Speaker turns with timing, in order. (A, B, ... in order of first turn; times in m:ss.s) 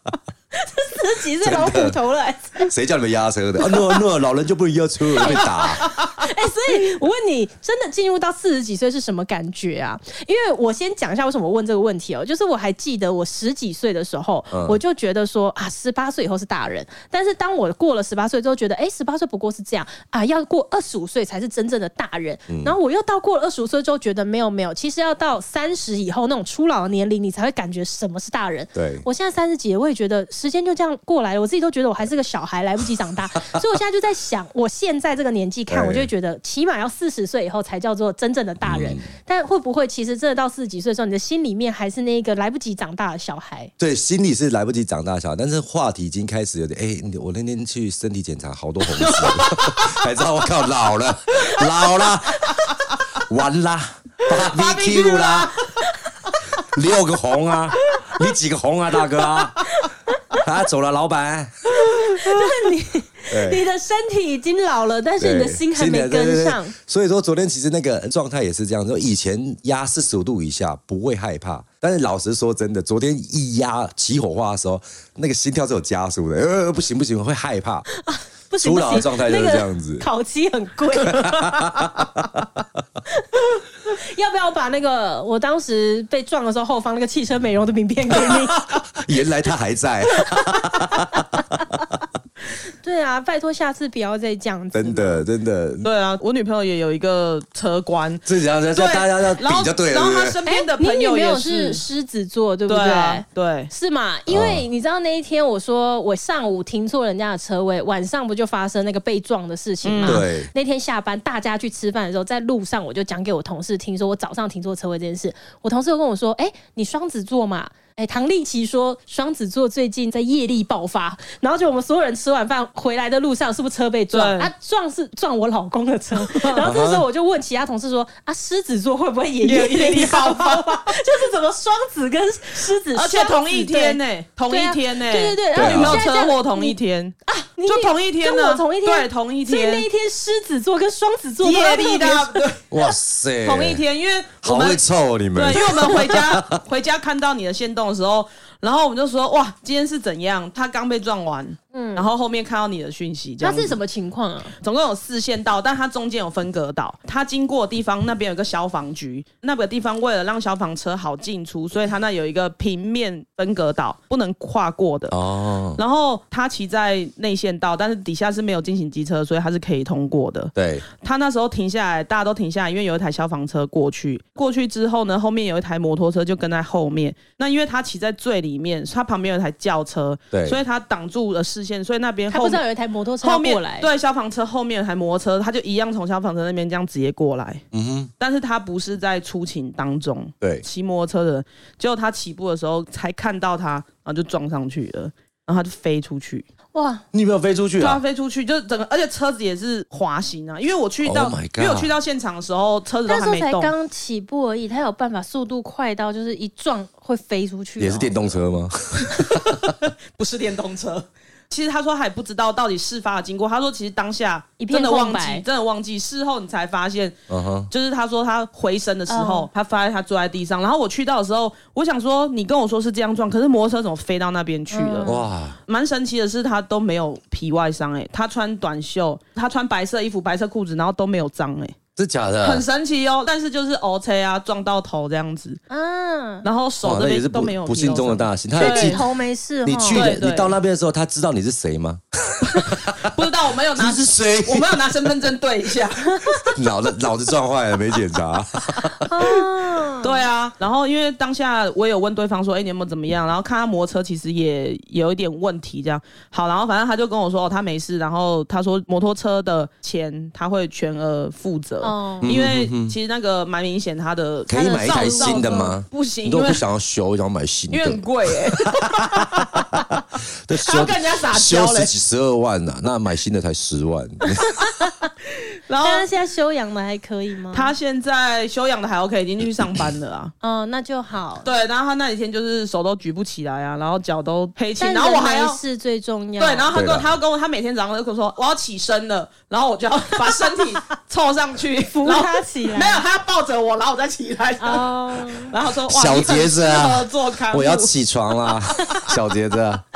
0:00.5-0:02.7 A
0:01.4-0:02.0 B
0:02.7-0:05.9 B
0:03.6-0:04.0 A
0:05.1-0:43.7 A
0:05.8-0:06.1 C
0:14.5-0:14.8 B
0:22.5-0:22.7 B
0:28.7-0:29.0 B
0:35.7-0:36.1 B
0:38.6-0:39.1 B
0:43.8-0:52.6 B
0:48.9-0:50.0 C
0:53.2-0:55.6 B
0:54.3-0:56.3 C
0:56.6-0:59.7 B
0:59.8-1:00.4 A
1:00.3-1:01.7 B
1:01.8-1:06.7 A
1:03.3-1:03.6 B
1:05.2-1:17.8 B
1:17.9-1:21.6 A
1:18.6-1:20.1 B
1:21.0-1:22.4 B
1:23.2-1:28.7 A
1:28.1-1:31.6 B
1:30.2-1:31.8 A
1:32.8-1:35.2 A
1:34.7-1:35.9 B
1:35.8-1:41.8 C
1:38.2-1:40.4 B
1:40.4-2:22.4 A
1:42.7-1:43.7 C
1:44.3-1:44.6 B
1:49.8-1:50.2 C
1:50.0-1:50.5 B
2:04.1-2:04.5 C
2:06.2-2:06.7 C
2:06.6-2:07.0 B
2:09.4-2:10.9 C
2:12.9-2:19.8 C
2:15.5-2:16.0 B
2:21.4-2:33.8 C
2:22.7-2:23.8 B
2:24.4-2:26.6 B
2:31.7-2:32.1 A
2:33.4-2:34.5 A
2:34.6-2:45.2 C
2:45.1-2:45.8 B
2:45.8-3:02.6 C
2:50.6-2:50.8 B
3:00.3-3:00.6 B
3:02.3-3:03.9 A
3:03.2-3:07.6 C
3:07.7-3:08.1 B
3:08.2-3:16.4 C
3:16.7-3:17.0 A
3:17.1-3:18.0 B
3:17.8-3:23.7 C
3:21.0-3:21.9 B
3:23.1-3:28.4 A
3:27.8-3:29.7 B
3:29.2-3:37.1 C
3:34.6-3:35.4 A
3:37.3-3:37.7 B
3:37.7-3:51.8 C
3:39.1-3:39.5 A
3:44.7-3:45.2 A
3:45.0-3:45.6 B
3:52.0-3:52.6 B
3:52.4-3:55.6 C
3:55.7-3:56.5 A
3:56.4-3:59.0 C
3:56.8-3:59.0 B
3:58.6-4:00.1 A
3:59.6-4:03.1 B
3:59.9-4:00.6 C
4:03.0-4:06.5 C
4:03.8-4:04.9 B
4:06.1-4:06.5 A
4:06.5-4:09.0 B
4:09.0-4:10.2 A
4:10.0-4:26.6 C
4:21.8-4:22.3 A
4:22.2-4:22.9 B
4:24.5-4:29.8 B
4:24.5-4:25.7 A
4:27.7-4:30.0 C
4:30.4-4:34.5 B
4:30.6-4:31.9 C
4:34.4-4:35.1 A
4:35.7-4:36.0 C
4:35.8-4:37.7 A
4:37.5-4:40.3 C
4:40.4-4:41.5 A
4:41.4-4:45.6 C
4:44.8-4:46.7 A
4:46.4-4:57.9 C
4:46.7-4:47.1 B
4:51.9-4:53.0 A
4:54.6-4:55.5 A
4:55.9-4:59.8 B